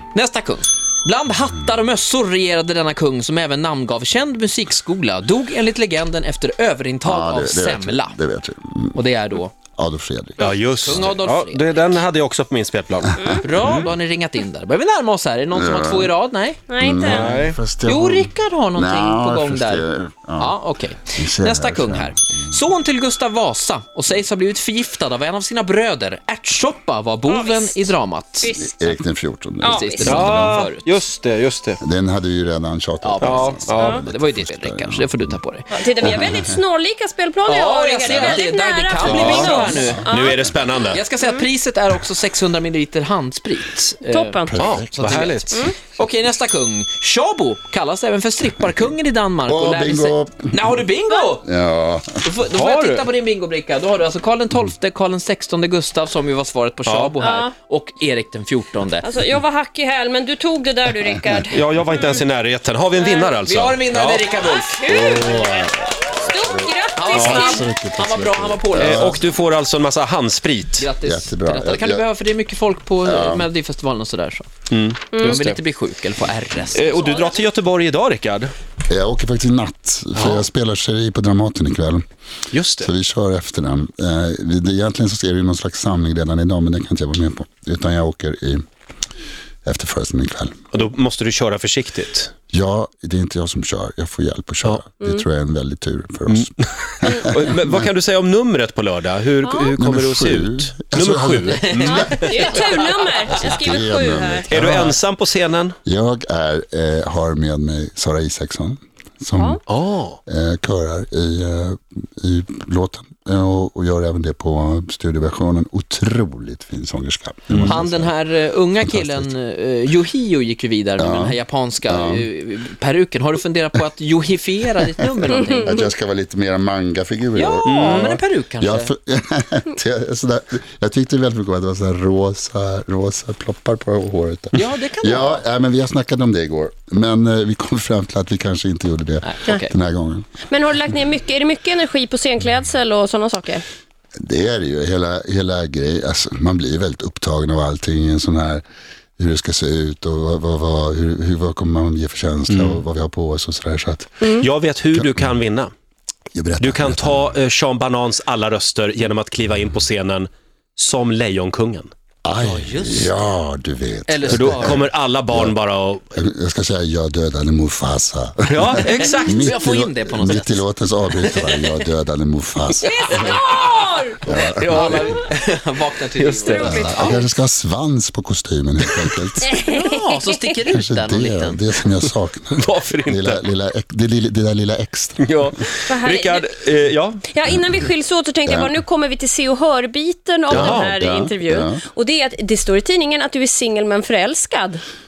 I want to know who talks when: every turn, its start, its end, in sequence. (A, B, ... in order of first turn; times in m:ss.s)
0:00.1-0:08.2 A
0:07.0-0:09.0 B
0:08.9-0:09.5 A
0:09.8-0:11.2 B
0:10.4-0:13.8 C
0:10.4-0:11.9 A
0:13.2-0:13.4 D
0:13.4-0:16.6 A
0:15.5-0:16.1 B
0:16.7-0:17.4 D
0:16.8-0:20.6 B
0:17.0-0:17.6 C
0:17.4-0:28.5 A
0:21.1-0:22.6 B
0:27.2-0:27.9 D
0:28.4-0:28.9 D
0:28.5-0:30.6 B
0:29.6-0:30.2 D
0:29.7-0:30.9 A
0:30.0-0:31.8 C
0:31.8-0:35.4 B
0:33.0-0:35.8 A
0:33.2-0:34.0 C
0:33.7-0:34.0 D
0:35.7-0:40.5 D
0:36.0-0:36.6 B
0:37.5-0:40.3 A
0:38.0-0:38.4 B
0:39.0-0:40.0 B
0:39.0-0:41.0 C
0:40.9-0:51.4 A
0:41.2-0:41.4 D
0:44.1-0:44.6 D
0:44.5-0:45.3 B
0:44.6-0:45.7 C
0:45.5-0:45.8 D
0:49.4-0:50.8 B
0:51.4-0:52.3 B
0:52.2-0:59.2 A
0:52.5-0:53.1 C
0:56.8-0:57.1 C
0:57.2-0:57.5 D
0:59.0-1:02.1 D
1:01.5-1:04.3 C
1:03.0-1:03.4 D
1:03.4-1:05.1 A
1:04.4-1:07.7 D
1:04.8-1:09.2 B
1:07.0-1:09.2 A
1:08.7-1:10.9 C
1:10.8-1:14.5 A
1:11.0-1:12.0 B
1:13.0-1:13.5 B
1:14.7-1:15.6 C
1:15.1-1:15.5 D
1:15.2-1:17.1 A
1:16.7-1:18.5 C
1:16.8-1:17.4 D
1:18.9-1:22.0 B
1:20.1-1:20.4 C
1:22.5-1:22.9 C
1:22.8-1:28.6 B
1:29.6-1:30.6 B
1:30.7-1:32.3 C
1:32.5-1:37.8 B
1:36.3-1:42.4 C
1:39.4-1:39.7 D
1:39.8-1:42.1 B
1:41.5-1:43.6 A
1:41.9-1:44.5 D
1:43.4-1:45.0 B
1:44.5-1:45.8 C
1:45.8-1:49.6 B
1:49.3-1:49.6 D
1:49.7-1:50.2 C
1:50.2-1:58.2 B
1:57.5-1:57.8 C
1:57.6-2:05.8 A
1:58.8-1:59.3 B
2:01.0-2:02.3 B
2:05.2-2:20.3 B
2:07.3-2:08.9 A
2:07.6-2:08.2 C
2:14.5-2:15.4 A
2:19.2-2:19.7 A
2:20.5-2:23.6 D
2:24.2-2:28.6 B
2:29.2-2:34.3 B
2:32.5-2:32.8 C
2:34.2-2:35.7 C
2:34.9-2:35.4 B
2:36.3-2:37.4 B
2:36.6-2:41.9 C
2:42.2-2:45.6 B
2:42.4-2:43.1 A
2:44.1-2:44.8 A
2:44.3-2:46.0 C
2:46.1-2:53.3 B
2:48.4-2:49.6 C
2:48.8-2:50.6 A
2:51.2-2:51.7 A
2:52.8-2:57.2 A
2:53.1-2:54.2 D
2:54.2-2:55.2 B
2:56.2-2:57.0 C
2:56.5-2:57.2 D
2:56.5-2:59.6 B
2:59.4-3:00.3 D
2:59.6-3:01.6 A
3:00.7-3:05.5 B
3:02.6-3:03.4 C
3:05.2-3:07.2 C
3:05.8-3:06.5 D
3:07.2-3:14.8 D
3:08.4-3:08.7 B
3:10.5-3:11.0 C
3:10.5-3:11.8 B